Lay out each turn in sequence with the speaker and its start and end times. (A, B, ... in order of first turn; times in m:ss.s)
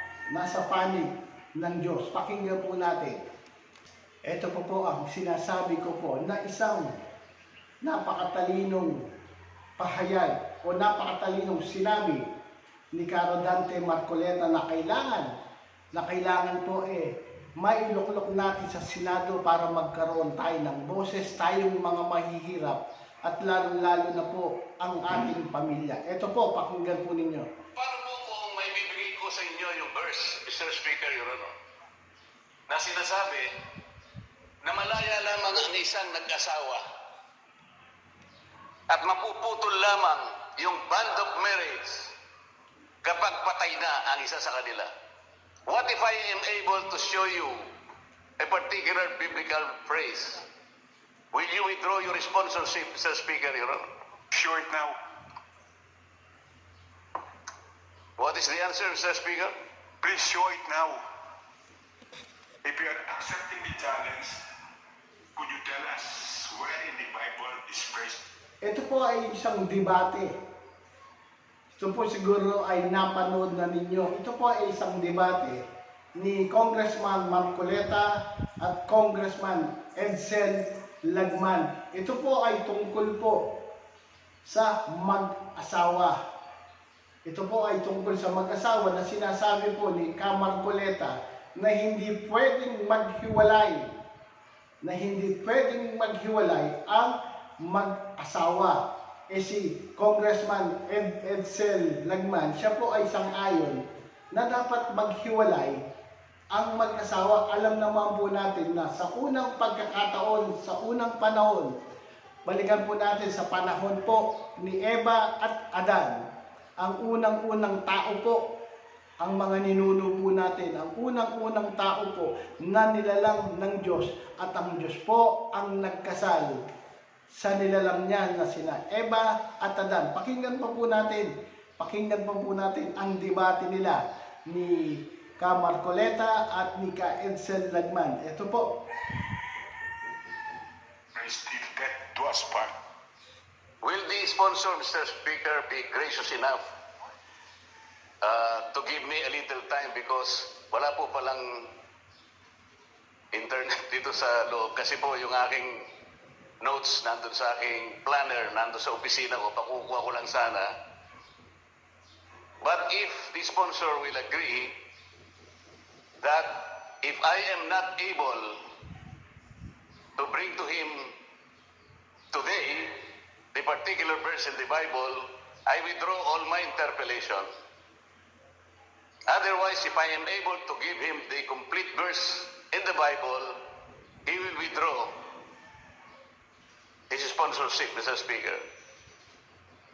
0:00.3-0:03.2 A
0:04.3-0:06.9 A
0:07.8-0:09.0 A
0:09.8-0:12.2 A
0:13.0-0:15.3 A
0:15.9-0:27.5 A
0:27.8-0:31.5 B
0:32.7-0:33.5 B
0:34.6-0:36.8 B
0:38.9-0:42.1 B
0:43.0-0:44.9 B
0:45.7-0:47.7 B
0:48.4-0:50.4 B
0:51.3-0:53.9 B
0:54.3-0:55.0 C
0:58.2-0:59.5 B
1:00.0-1:01.0 C
1:02.6-1:04.4 C
1:05.4-1:08.2 C
1:08.6-1:10.4 A
1:11.8-1:15.6 A
1:16.2-1:23.5 A
1:24.4-1:26.2 A
1:27.3-1:33.9 A
1:34.8-1:43.8 A
1:44.3-1:45.8 A
1:46.5-1:51.7 A
1:52.5-1:56.2 A
1:56.8-1:58.4 A
1:59.2-2:06.6 A
2:07.3-2:18.7 A
2:21.2-2:22.7 C
2:23.8-2:26.7 B
2:28.2-2:31.7 B
2:33.3-2:35.8 B
2:36.6-2:40.7 B
2:42.6-2:44.8 B
2:46.2-2:48.6 B
2:50.2-2:51.1 B
2:52.3-2:53.0 B
2:53.5-2:57.5 B
2:59.3-3:03.6 B
3:04.3-3:05.2 B
3:07.1-3:08.6 B